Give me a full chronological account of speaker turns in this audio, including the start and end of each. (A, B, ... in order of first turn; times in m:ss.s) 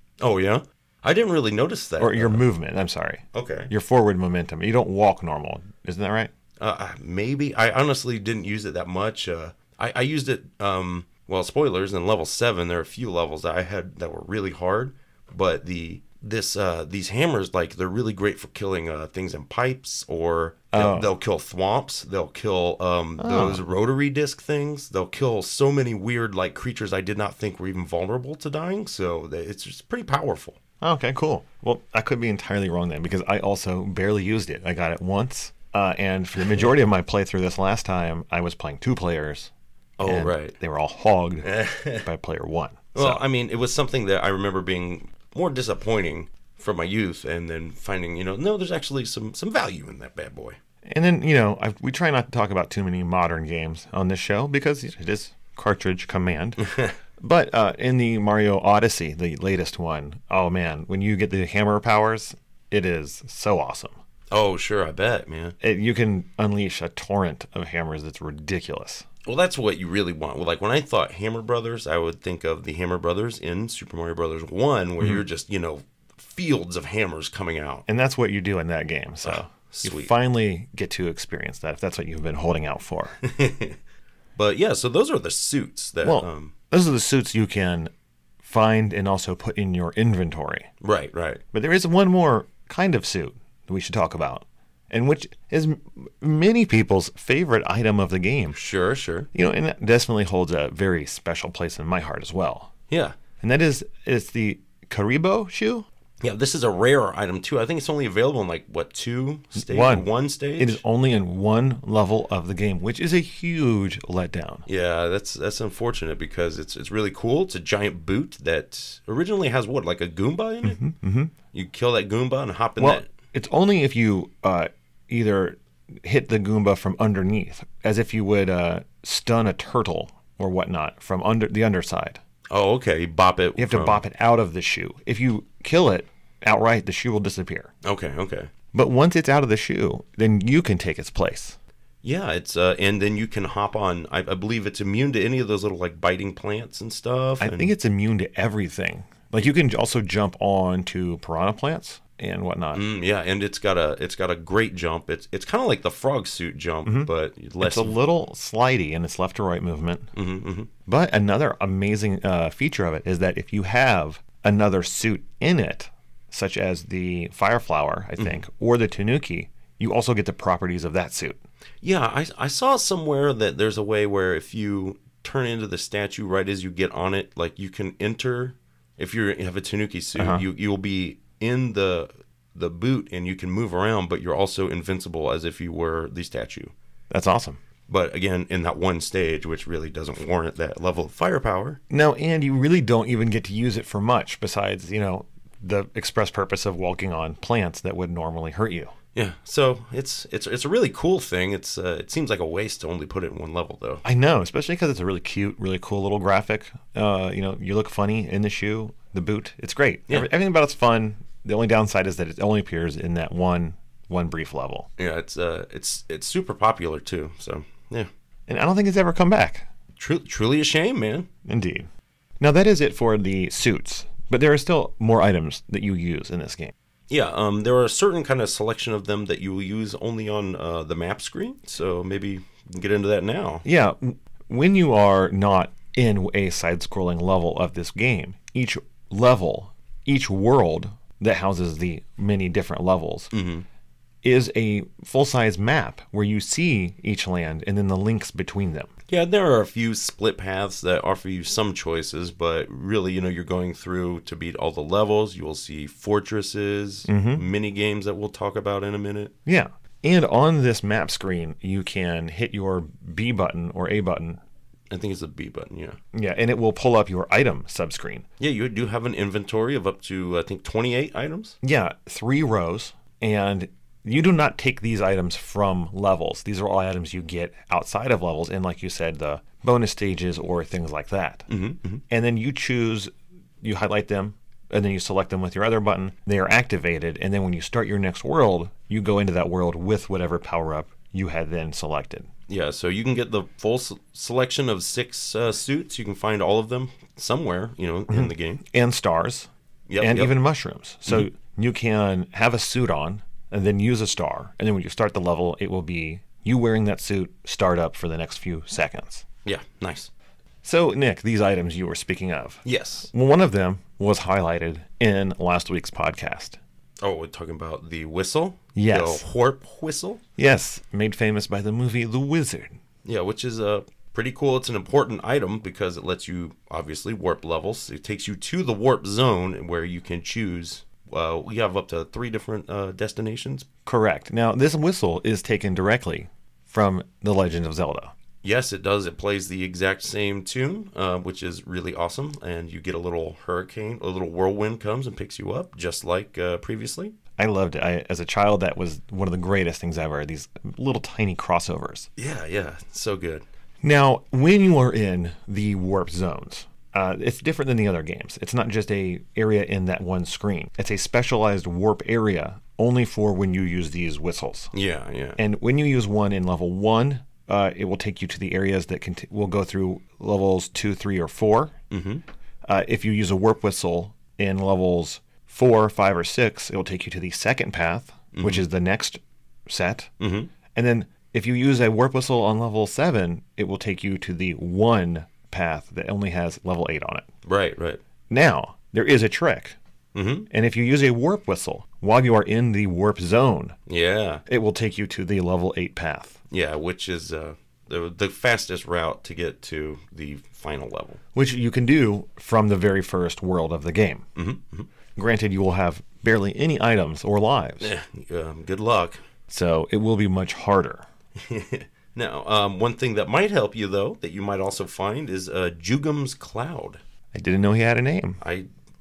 0:00.2-0:02.4 A
0:02.0-0:06.3 B
0:03.3-0:03.7 A
0:06.6-0:30.6 A
0:20.7-0:21.1 B
0:23.2-0:23.6 B
0:30.8-0:39.5 B
0:40.0-0:40.6 A
0:40.0-0:43.2 B
0:41.4-0:42.1 A
0:42.9-0:50.6 A
0:50.8-0:56.6 B
0:56.6-0:57.0 A
0:57.2-1:03.9 B
1:04.3-1:05.6 A
1:05.6-1:09.1 B
1:09.2-1:17.9 A
1:17.9-1:23.2 B
1:19.2-1:20.1 A
1:23.2-1:23.8 A
1:24.4-1:26.5 A
1:26.0-1:27.9 B
1:28.4-1:30.7 B
1:30.8-1:31.4 A
1:31.5-1:38.6 B
1:38.5-1:39.3 A
1:39.3-1:42.7 B
1:42.9-1:43.2 A
1:43.4-1:45.9 B
1:46.2-1:50.8 A
1:49.6-1:54.7 B
1:54.7-2:00.8 A
2:00.6-2:01.3 B
2:01.5-2:03.1 A
2:02.8-2:12.2 B
2:12.5-2:14.0 A
2:13.6-2:17.7 B
2:17.8-2:18.5 A
2:18.7-2:21.6 B
2:22.0-2:27.7 A
2:27.4-2:32.8 B
2:32.7-2:38.0 A
2:36.8-2:37.1 B
2:37.6-2:40.1 B
2:40.1-2:40.7 A
2:40.9-2:51.4 B
2:48.2-2:48.4 A
2:51.8-3:06.7 A
3:00.2-3:00.4 B
3:07.1-3:07.6 B
3:07.9-3:11.8 A
3:11.9-3:18.9 B
3:19.2-3:24.0 A
3:24.0-3:34.9 B
3:35.0-3:38.1 A
3:38.5-3:39.7 B
3:40.0-3:41.3 A
3:41.5-3:41.9 B
3:42.4-3:46.7 B
3:47.1-3:53.6 A
3:53.6-4:03.3 B
4:03.3-4:03.7 A
4:04.2-4:08.9 B
4:09.1-4:19.3 A
4:17.1-4:17.4 B
4:19.5-4:24.4 B
4:24.9-4:26.0 A
4:26.1-4:28.3 B
4:28.4-4:31.6 A
4:31.6-4:41.5 B
4:41.5-4:42.0 A
4:42.1-4:43.1 B
4:43.6-4:52.3 B
4:52.5-4:58.6 A
4:58.1-5:09.2 B
4:59.9-5:00.4 A
5:09.4-5:10.1 A
5:10.6-5:16.6 B
5:12.6-5:13.1 A
5:17.0-5:20.2 A
5:18.8-5:19.2 B
5:20.4-5:22.8 B
5:23.0-5:33.7 A
5:33.9-5:38.1 B
5:38.4-5:47.2 A
5:47.4-5:52.1 B
5:52.2-5:53.4 A
5:53.8-6:04.7 B
6:04.7-6:05.4 A
6:05.4-6:11.8 B
6:11.9-6:12.2 A
6:12.6-6:20.1 B
6:18.3-6:18.6 A
6:20.2-6:20.5 A
6:20.7-6:27.3 B
6:27.5-6:28.0 A
6:28.3-6:29.8 B
6:30.2-6:30.5 A
6:30.5-6:33.8 B
6:33.9-6:34.4 A
6:34.5-6:36.4 B
6:36.5-6:41.2 A
6:41.4-6:44.2 B
6:44.4-6:44.9 A
6:45.2-6:47.9 B
6:47.8-6:49.2 A
6:49.5-6:51.1 B
6:51.4-6:57.0 A
6:57.3-6:58.4 B
6:58.4-6:58.7 A